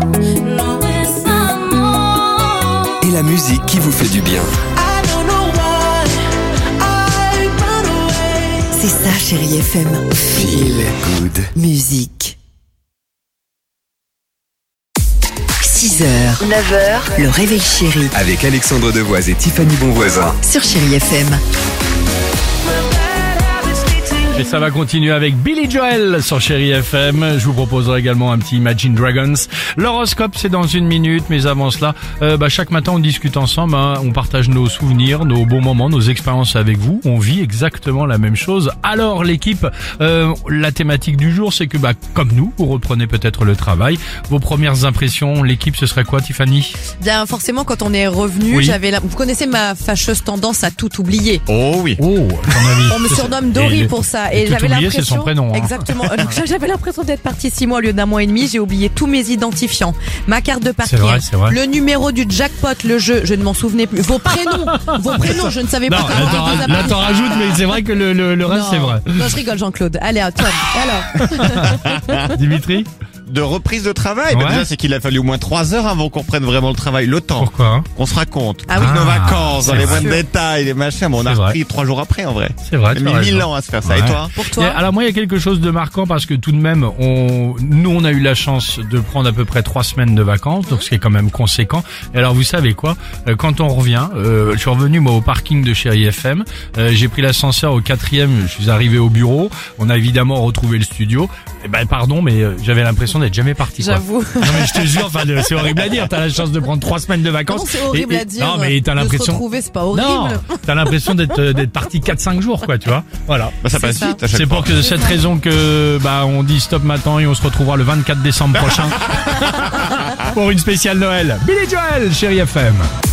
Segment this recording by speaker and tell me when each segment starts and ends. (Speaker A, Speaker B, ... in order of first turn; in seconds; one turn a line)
Speaker A: 0.6-1.6
Speaker B: 3.0-4.5
Speaker A: 4.8-6.0
Speaker A: 6.9-8.5
Speaker C: 8.7-10.9
Speaker B: 10.3-11.5
Speaker C: 11.5-12.4
Speaker C: 15.6-18.1
Speaker B: 18.1-20.4
Speaker C: 20.4-21.4
Speaker D: 24.2-46.8
Speaker A: 47.0-51.4
Speaker D: 48.5-48.8
Speaker E: 51.5-52.0
Speaker D: 52.0-56.2
Speaker A: 52.9-67.6
Speaker D: 60.8-61.6
Speaker D: 64.5-69.3
Speaker E: 66.2-67.3
Speaker A: 68.4-72.3
Speaker D: 71.1-72.9
Speaker E: 71.7-72.1
Speaker E: 73.2-84.3
Speaker D: 74.3-74.7
Speaker D: 77.3-77.9
Speaker A: 78.7-79.0
Speaker D: 78.8-80.1
Speaker A: 79.8-80.2
Speaker D: 81.2-81.6
Speaker D: 82.6-113.6
Speaker A: 84.3-84.8
Speaker A: 103.8-104.8
Speaker A: 107.5-110.6
Speaker E: 113.6-114.8
Speaker A: 113.7-114.2
Speaker D: 114.3-122.9
Speaker A: 114.8-115.2